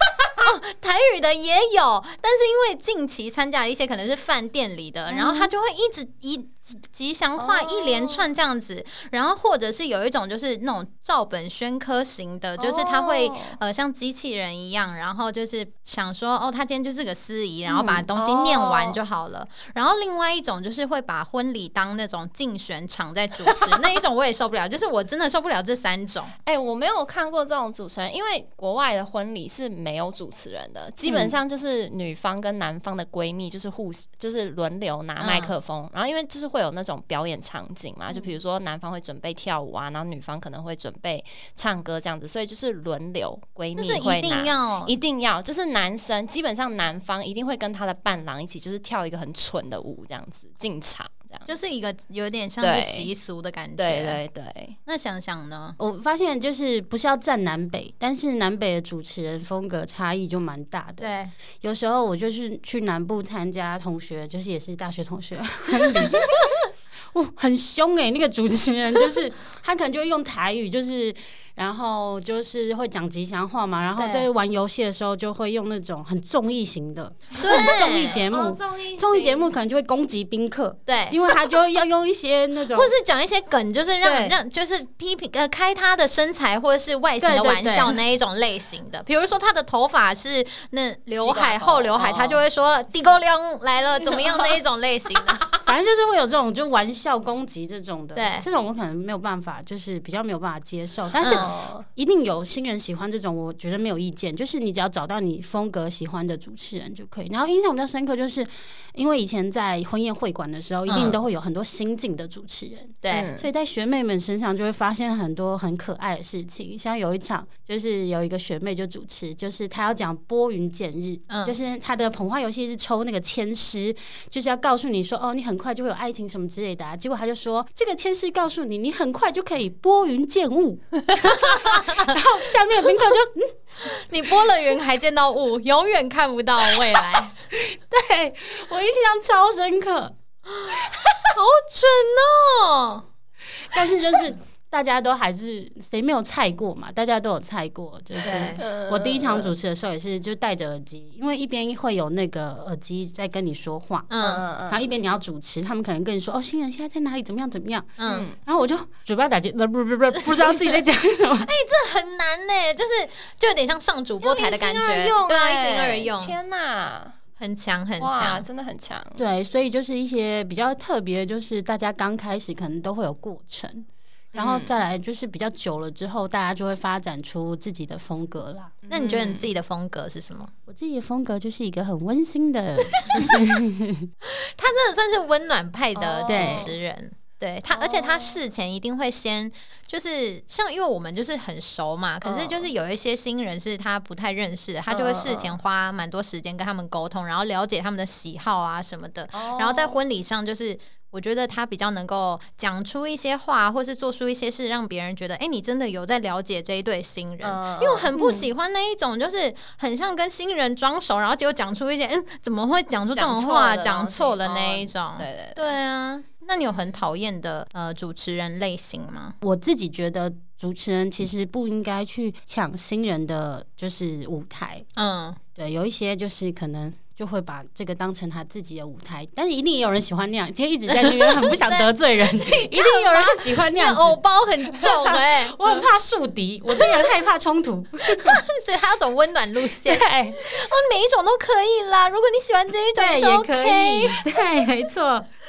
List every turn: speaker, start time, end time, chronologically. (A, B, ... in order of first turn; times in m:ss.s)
0:00.4-0:26.3 A
0:07.4-0:08.3 B
0:12.6-0:13.6 B
0:17.7-0:19.0 B
0:23.5-0:23.8 B
0:26.4-0:51.5 B
0:35.2-0:35.5 A
0:43.8-0:44.9 A
0:51.5-0:54.2 A
0:52.6-0:53.1 B
0:53.8-0:54.8 B
0:54.9-0:55.8 A
0:55.8-1:06.4 C
1:01.0-1:01.3 A
1:07.1-1:22.9 C
1:14.0-1:14.3 A
1:17.4-1:18.2 A
1:17.4-1:19.5 B
1:20.9-1:21.2 A
1:22.7-1:35.5 A
1:24.0-1:24.4 C
1:27.2-1:27.9 C
1:31.2-1:32.4 B
1:34.1-1:34.6 B
1:35.6-2:13.6 C
1:38.2-1:38.5 A
1:41.2-1:41.6 A
1:41.3-1:41.8 B
1:50.9-1:51.2 A
1:53.0-1:53.3 A
1:53.1-1:53.5 B
2:01.3-2:01.6 A
2:11.6-2:12.1 A
2:13.8-2:17.3 A
2:17.5-2:20.2 C
2:21.3-2:23.0 A
2:23.6-2:34.1 C
2:28.2-2:28.6 A
2:28.6-2:29.5 B
2:34.1-2:34.4 A
2:34.2-2:34.8 B
2:34.7-2:41.5 C
2:38.0-2:38.3 A
2:38.0-2:38.4 B
2:41.4-2:46.4 A
2:44.2-2:47.2 B
2:47.4-2:48.5 A
2:48.0-2:49.2 B
2:49.2-2:58.8 C
2:54.3-2:54.8 B
2:58.8-2:59.5 B
2:58.9-3:00.5 A
3:00.7-3:04.1 C
3:04.2-3:39.4 A
3:06.0-3:06.8 B
3:06.3-3:06.7 C
3:07.7-3:08.4 B
3:12.2-3:12.7 B
3:14.9-3:15.6 B
3:19.3-3:20.0 B
3:27.4-3:28.2 B
3:28.2-3:28.4 C
3:33.1-3:35.7 B
3:39.4-3:44.9 C
3:45.0-3:45.4 A
3:45.6-3:58.4 C
3:50.9-3:55.8 A
3:58.2-4:04.4 A
3:59.9-4:00.4 C
4:03.0-4:05.3 C